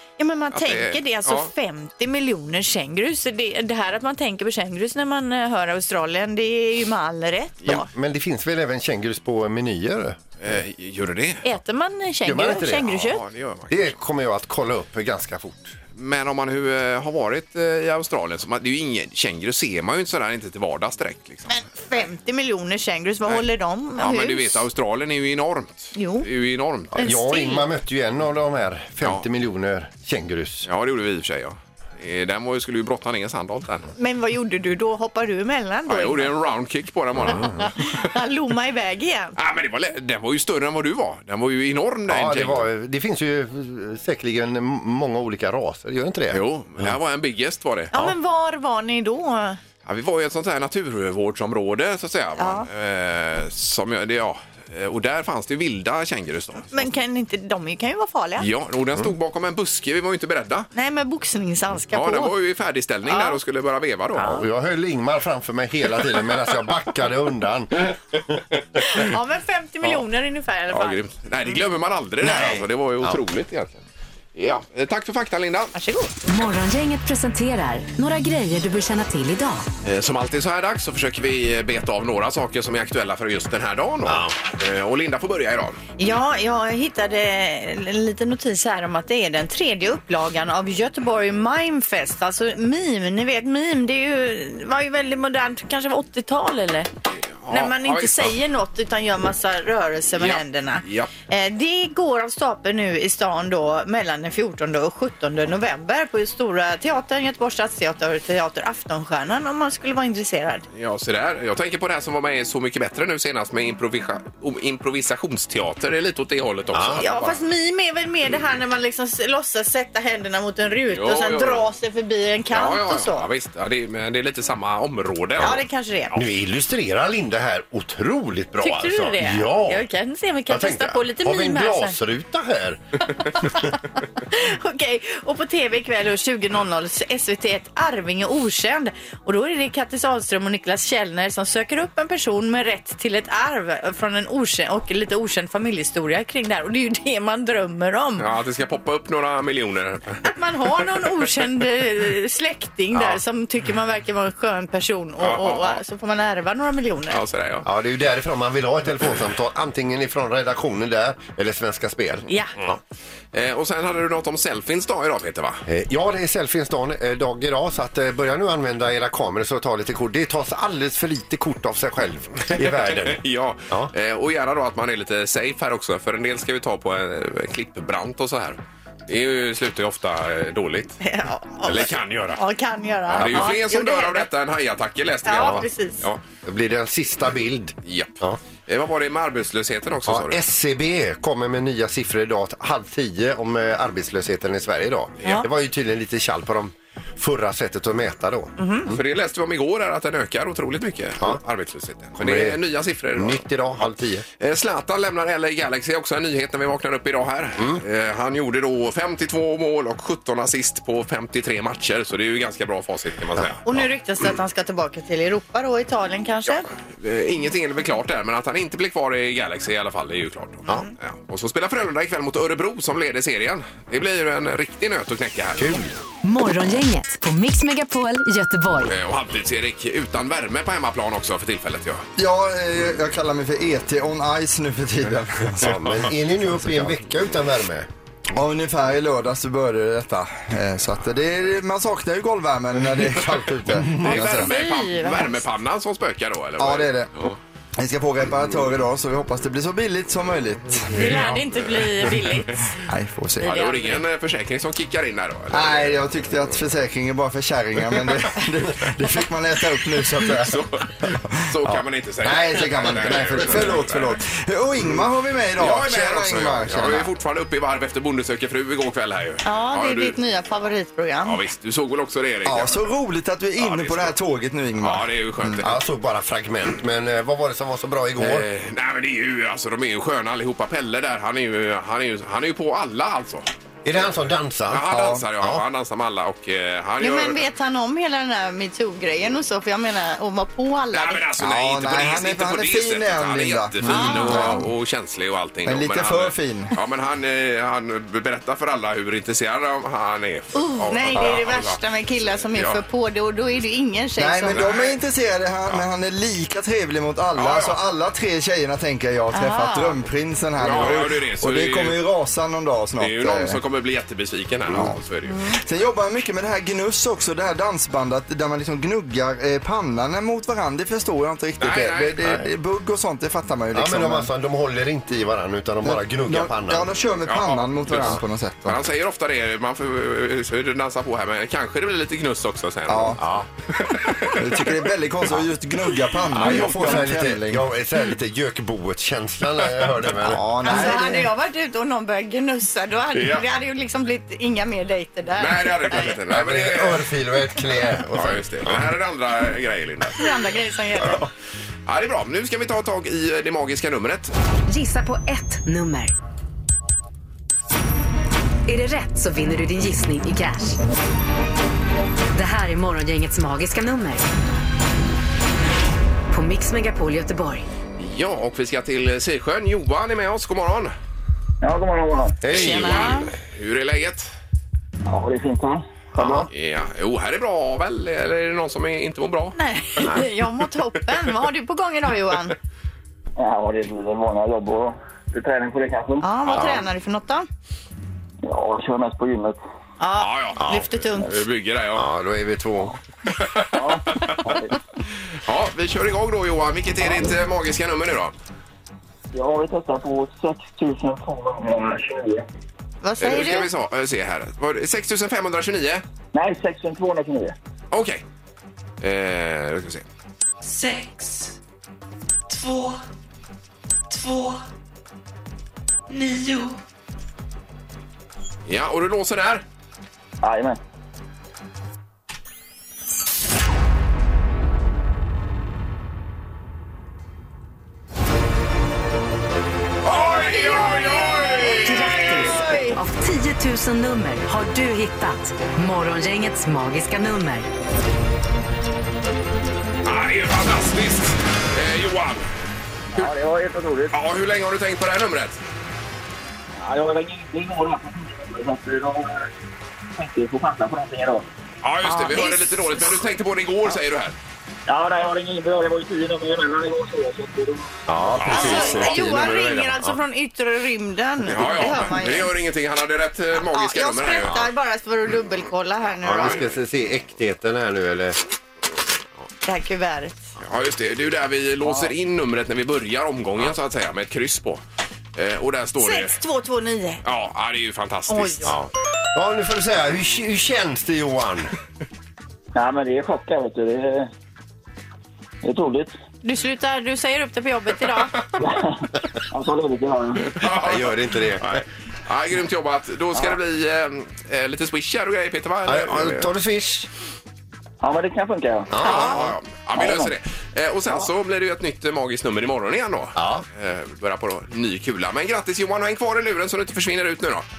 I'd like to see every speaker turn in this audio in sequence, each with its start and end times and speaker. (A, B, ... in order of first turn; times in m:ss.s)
0:00.2-0:07.9 A
0:00.5-0:01.5 B
0:07.6-0:10.2 C
0:10.4-0:11.4 B
0:11.4-0:13.2 A
0:12.2-0:13.0 C
0:12.9-0:13.9 B
0:13.7-0:15.8 C
0:16.0-0:21.7 B
0:21.5-0:24.6 A
0:24.0-0:27.1 B
0:25.9-0:26.3 A
0:26.9-0:27.6 A
0:27.0-0:30.7 C
0:30.6-0:33.9 B
0:34.0-0:36.3 A
0:35.9-0:38.1 B
0:37.2-0:37.5 C
0:37.4-0:39.3 A
0:39.4-0:42.7 B
0:42.1-0:46.9 C
0:46.3-0:48.1 B
0:47.9-0:49.6 A
0:49.8-0:56.8 B
0:52.4-0:52.7 A
0:56.7-0:58.4 A
0:58.4-1:00.7 B
1:00.7-1:02.3 A
1:01.9-1:04.4 B
1:03.0-1:03.4 A
1:04.2-1:08.3 C
1:08.8-1:11.0 A
1:10.7-1:13.8 B
1:12.2-1:13.2 C
1:14.3-1:15.7 B
1:15.7-1:16.2 A
1:16.3-1:19.7 D
1:19.8-1:25.8 B
1:24.0-1:24.3 C
1:26.0-1:36.9 A
1:37.1-1:38.3 B
1:37.5-1:50.6 A
1:40.2-1:41.1 B
1:50.7-1:57.4 B
1:56.7-1:57.0 C
1:57.0-2:03.3 A
2:00.9-2:01.7 B
2:02.5-2:05.6 B
2:05.4-2:06.2 A
2:06.1-2:09.8 C
2:08.6-2:12.0 A
2:10.5-2:12.8 C
2:14.3-2:28.2 A
2:28.2-2:30.2 B
2:30.2-2:37.2 A
2:32.9-2:33.2 C
2:35.2-2:35.8 B
2:37.1-2:37.7 B
2:37.6-2:42.8 C
2:42.3-2:42.5 A
2:43.3-2:45.6 B
2:45.6-2:53.9 C
2:52.6-3:01.0 B
3:01.0-3:04.3 A
3:01.6-3:02.4 B
3:03.1-3:06.2 B
3:03.1-3:03.5 C
3:05.2-3:06.0 A
3:06.4-3:08.4 C
3:07.8-3:10.4 B
3:10.1-3:19.0 C
3:18.6-3:18.9 A
3:18.9-3:33.6 B
3:22.2-3:22.6 C
3:23.1-3:24.2 C
3:33.6-3:36.6 A
3:37.0-3:45.8 B
3:45.6-3:45.9 C
3:46.2-3:48.9 D
3:48.8-3:52.0 B
3:52.2-3:56.1 E
3:55.6-3:57.9 C
3:58.3-4:04.5 E
4:03.7-4:04.2 C
4:03.9-4:07.4 B
4:04.4-4:05.4 A
4:06.6-4:07.1 E
4:07.8-4:11.3 E
4:10.9-4:12.6 A
4:12.9-4:13.6 E
4:13.4-4:14.0 A
4:13.4-4:16.5 B
4:15.5-4:27.1 E
4:20.2-4:24.2 B
4:22.6-4:23.8 C
4:25.6-4:30.2 B
4:29.4-4:31.4 A
4:31.2-4:32.9 B
4:32.4-4:35.6 E
4:33.6-4:34.1 B
4:34.8-4:35.8 B
4:35.6-4:38.4 C
4:38.2-4:43.5 B
4:43.8-4:45.6 C
4:44.7-4:47.4 B
4:44.9-4:45.2 E
4:47.0-4:51.2 A
4:50.9-5:02.8 B
4:51.4-4:54.7 E
4:53.8-4:54.6 A
4:55.6-4:56.7 E
5:00.5-5:04.7 A
5:01.2-5:01.4 E
5:04.2-5:13.6 E
5:04.5-5:05.0 B
5:07.3-5:07.8 B
5:09.3-5:10.0 A
5:10.6-5:12.0 B
5:13.0-5:15.4 B
5:14.7-5:15.0 E
5:15.5-5:24.3 E
5:21.6-5:22.2 B
5:23.7-5:26.9 C
5:25.8-5:28.8 E
5:27.2-5:33.2 B
5:32.9-5:33.2 E
5:33.2-5:33.5 C
5:33.7-5:34.8 B
5:34.3-5:37.6 E
5:36.3-5:37.1 B
5:36.4-5:41.0 C
5:40.1-5:41.3 E
5:40.6-5:46.1 A
5:43.1-5:43.4 B
5:45.4-5:47.1 B
5:46.3-5:48.9 C
5:48.1-5:50.2 B
5:50.2-5:51.3 A
5:51.9-5:54.3 B
5:54.7-5:56.1 D
5:58.7-6:00.8 D
6:02.3-6:04.3 D
6:06.3-6:07.6 D
6:08.0-6:10.9 B
6:11.6-6:12.4 F
6:12.4-6:13.2 C
6:12.5-6:13.3 A
6:12.5-6:14.3 B
6:15.0-6:16.5 F
6:16.1-6:16.5 C
6:16.5-6:20.1 B
6:19.5-6:22.6 A
6:23.4-6:26.3 F
6:26.2-6:27.5 A
6:26.5-6:26.8 B
6:26.6-6:26.8 C
6:28.4-6:29.6 F
6:30.0-6:31.4 A
6:30.2-6:32.1 B
6:30.6-6:30.8 C
6:31.9-6:33.0 C
6:33.3-6:34.5 B
6:33.7-6:34.7 F
6:35.4-6:38.3 B
6:39.3-6:42.4 F
6:43.0-6:43.7 A
6:43.2-6:46.0 B
6:46.3-6:47.5 F
6:47.9-6:48.2 B
6:49.0-6:50.0 B
6:50.6-6:51.5 G
6:52.5-6:53.0 G
6:54.1-6:54.6 G
6:56.1-6:56.8 G
6:58.6-6:59.6 B
7:00.4-7:00.8 F
7:10.0-7:12.5 B
7:10.6-7:13.0 A
7:11.8-7:17.7 D
7:20.0-7:22.5 B
7:23.1-7:24.2 F
7:24.1-7:25.6 B
7:26.8-7:29.5 F
7:30.2-7:31.4 F
7:31.8-7:34.4 B
7:32.0-7:33.0 A
7:34.9-7:37.9 F
7:38.1-7:40.2 C
7:38.4-7:38.9 B
7:38.4-7:42.5 A
7:41.5-7:44.6 B
7:43.6-7:46.6 A
7:46.2-7:48.4 C
7:49.6-7:50.4 A
7:50.6-7:54.8 B
7:55.3-7:56.4 B
7:56.0-7:57.2 A
7:57.2-7:58.8 B
7:58.3-7:58.7 A
7:58.6-8:01.7 C
8:02.7-8:04.3 F
8:05.6-8:06.1 F
8:06.4-8:08.4 A
8:08.6-8:10.5 F
8:10.5-8:16.5 B
8:10.7-8:11.8 C
8:15.8-8:17.1 C
8:18.0-8:19.3 F
8:18.9-8:19.5 C
8:19.0-8:27.6 B
8:20.0-8:20.3 F
8:23.4-8:23.6 C